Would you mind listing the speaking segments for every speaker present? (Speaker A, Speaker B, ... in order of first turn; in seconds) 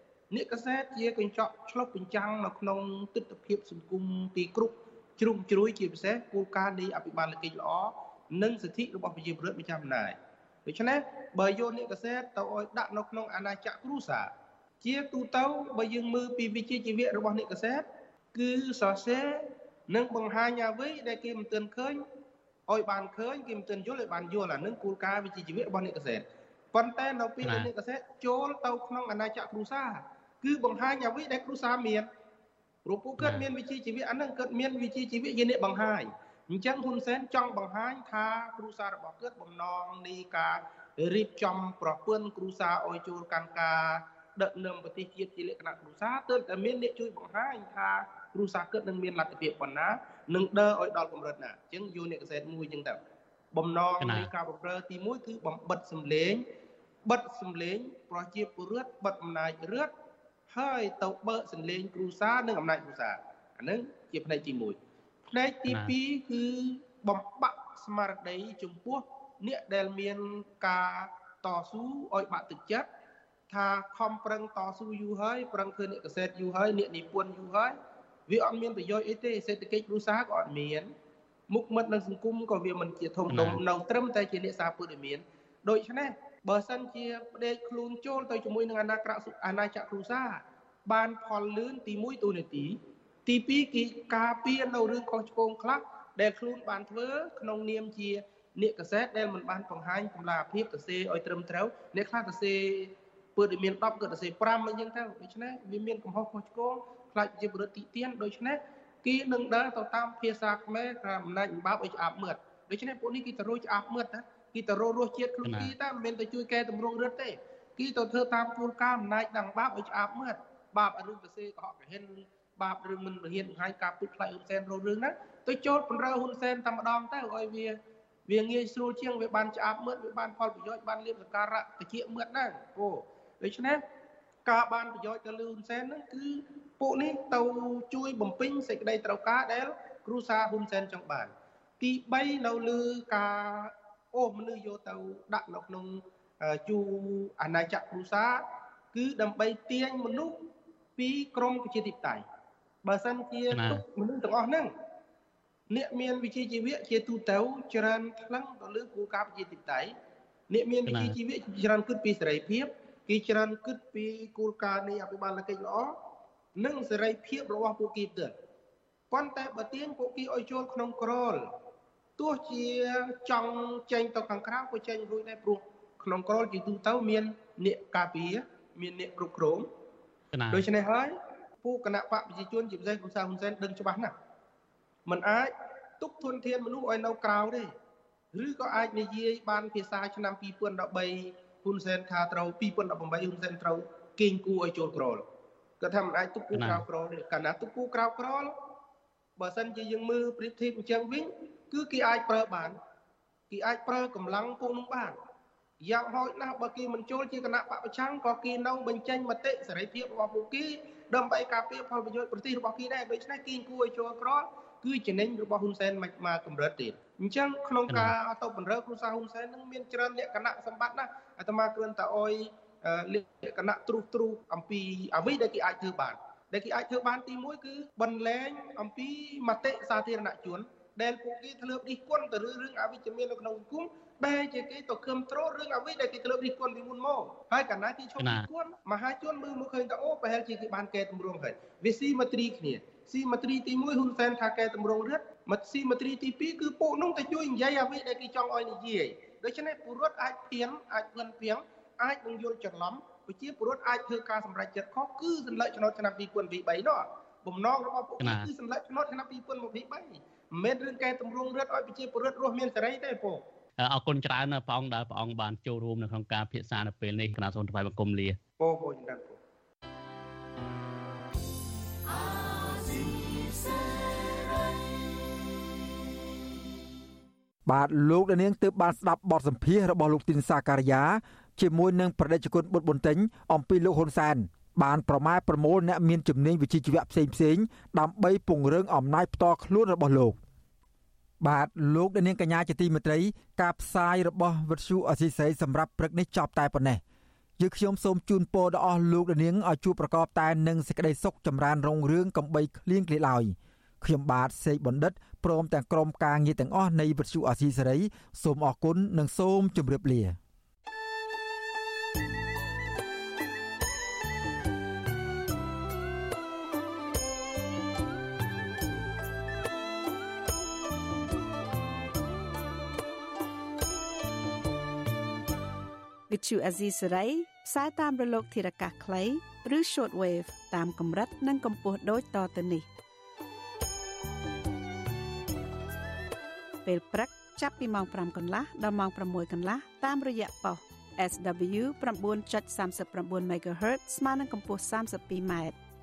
Speaker A: 0.3-14.3, 14.8-22.0, 22.7-32.1, 32.8-53.0, 53.5-56.4, 57.0-59.9, 60.5-64.8, 65.3-72.9, 73.5-77.8, 78.3-80.9, 81.5-127.8, 128.3-133.8, 134.4-148.4, 148.9-152.2, 152.8-154.7, 155.7-159.9, 160.5-165.9, 166.6-168.3, 169.1-171.5, 172.2-179.7, 180.5-184.1, 185.1-187.7, 188.3-195.2, 195.8-198.5, 199.4-202.8, 203.5-205.2, 205.8-263.4, 268.6-269.4
Speaker B: 27.4-27.7, 33.2-33.5, 54.0-54.3, 83.3-83.6, 115.4-115.7, 153.5-153.8, 160.9-161.2, 180.3-180.7, 196.5-196.8, 217.9-218.1, 238.2-238.5, 258.2-258.5, 263.8-268.4
Speaker C: 277.6-290.4, 291.4-297.0, 297.6-310.4
Speaker D: 326.3-332.9, 336.8-345.8